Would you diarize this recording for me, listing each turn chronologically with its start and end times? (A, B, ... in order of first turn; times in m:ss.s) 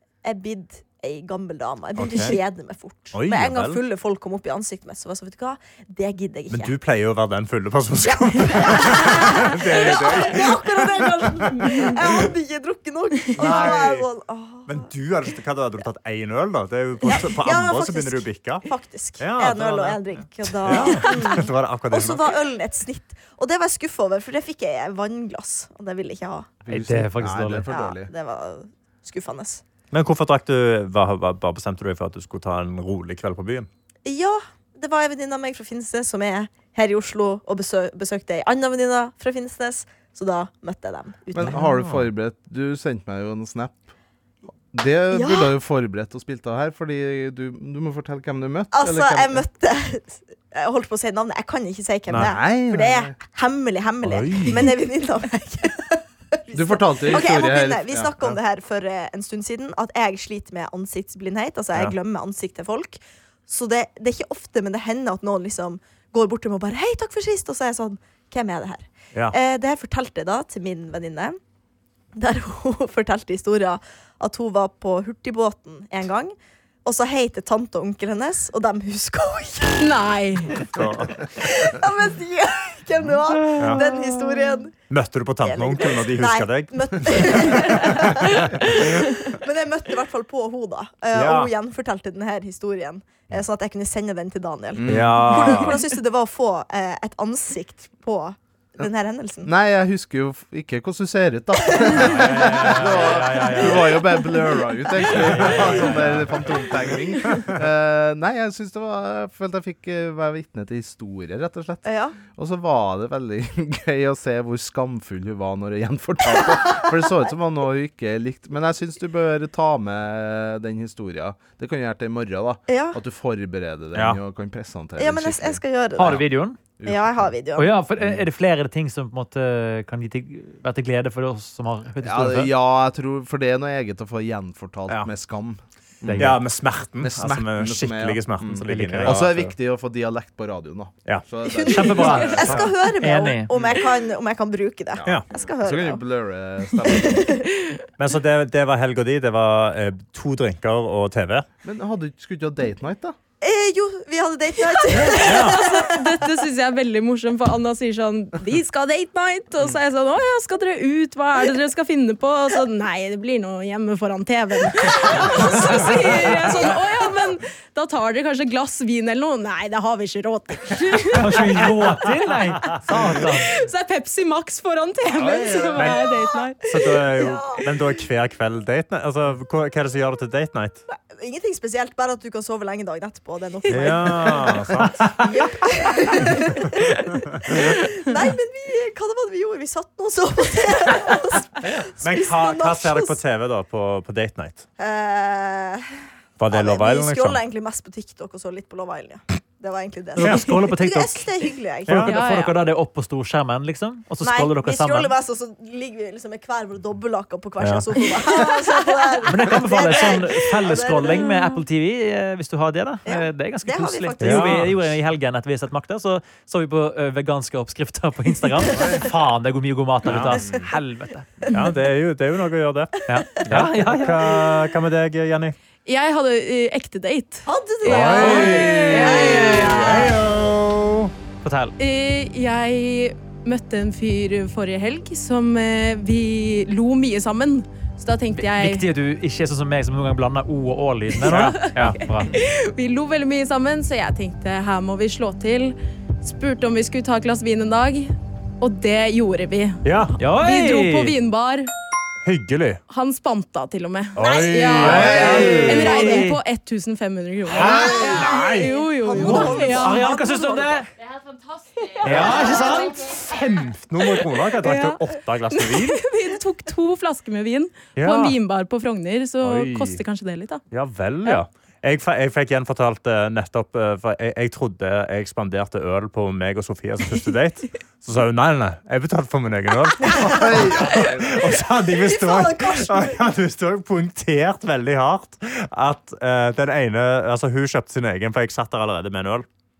0:00.2-0:06.7 A
0:02.0-0:02.4 B
0:03.1-0:03.8 B
0:06.5-0:12.3 B
0:08.0-0:14.9 A
0:13.3-0:14.1 B
0:14.7-0:18.7 B
0:17.0-0:26.5 A
0:19.2-0:22.3 B
0:26.6-0:28.1 C
0:26.7-0:27.6 D
0:27.7-0:29.6 A
0:29.9-0:33.7 B
0:34.0-0:41.7 A
0:41.3-0:43.9 C
0:41.4-0:42.1 B
0:44.7-0:49.4 C
0:45.1-0:45.5 A
0:48.7-1:11.4 A
0:52.1-0:52.3 B
0:52.2-0:53.2 C
0:54.0-0:54.7 B
0:56.5-0:57.9 C
0:57.9-0:58.4 B
1:12.2-1:19.9 A
1:19.8-1:20.7 E
1:20.7-1:21.2 B
1:21.3-1:24.7 A
1:23.6-1:23.8 B
1:24.9-1:28.8 B
1:25.4-1:39.5 A
1:31.1-1:31.5 B
1:34.7-1:35.5 C
1:34.9-1:35.8 B
1:39.4-2:06.2 C
1:41.6-1:42.0 A
1:42.0-1:44.0 D
1:45.0-1:46.5 D
1:47.3-1:47.6 B
1:51.8-1:52.2 A
1:56.4-1:56.8 A
2:02.7-2:03.0 A
2:03.9-2:04.2 B
2:05.0-2:06.2 A
2:06.0-2:06.6 D
2:06.8-2:07.3 C
2:06.8-2:07.7 A
2:07.5-2:12.5 D
2:12.0-2:16.4 C
2:16.0-2:16.4 D
2:16.2-2:19.5 B
2:17.0-2:22.7 C
2:18.6-2:19.2 D
2:21.4-2:26.0 A
2:21.6-2:23.5 D
2:23.5-2:23.8 C
2:25.0-2:27.3 C
2:26.9-2:27.5 A
2:28.0-2:31.5 B
2:31.6-2:33.2 C
2:33.4-2:36.1 A
2:34.9-2:35.6 B
2:35.1-2:51.7 E
2:51.1-2:53.5 D
2:52.6-2:57.0 E
2:55.2-2:55.9 C
2:55.7-2:56.0 B
2:56.6-3:00.8 B
2:57.2-2:57.6 A
3:00.9-3:13.2 A
3:03.7-3:05.4 B
3:07.1-3:07.6 B
3:11.7-3:14.6 B
3:14.8-3:15.8 A
3:16.4-3:17.4 B
3:16.5-3:22.0 A
3:20.2-3:21.3 D
3:20.2-3:20.5 B
3:21.9-3:22.1 B
3:21.9-3:25.1 D
3:22.1-3:22.6 E
3:24.2-3:31.4 A
3:27.6-3:27.9 B
3:29.3-3:41.4 D
3:33.0-3:34.9 A
3:34.2-3:34.7 B
3:38.7-3:39.1 C
3:40.0-3:40.6 B
3:40.4-3:40.6 C
3:41.5-3:45.5 B
3:43.1-3:44.2 D
3:45.8-3:47.5 E
3:47.5-3:50.2 A
3:47.8-3:51.1 B
3:47.8-3:50.0 D
3:48.7-3:49.6 E
3:51.4-3:51.7 D
3:51.8-3:58.8 E
3:58.3-4:02.4 D
4:01.2-4:02.0 B
4:01.3-4:11.7 E
4:09.8-4:10.1 B
4:10.2-4:11.1 D
4:12.2-4:12.8 B
4:12.9-4:20.1 E
4:14.1-4:16.1 B
4:14.8-4:16.4 D
4:14.8-4:15.8 C
4:17.5-4:19.7 B
4:17.5-4:18.0 C
4:17.6-4:20.9 A
4:19.2-4:20.9 D
4:22.0-4:23.0 D
4:22.0-4:26.0 B
4:22.1-4:22.8 A
4:22.1-4:22.6 E
4:24.3-4:30.6 E
4:28.0-4:28.4 B
4:29.4-4:30.0 B
4:30.7-4:49.4 B
4:40.0-4:41.0 A
4:40.2-4:41.4 C
4:41.9-4:43.2 A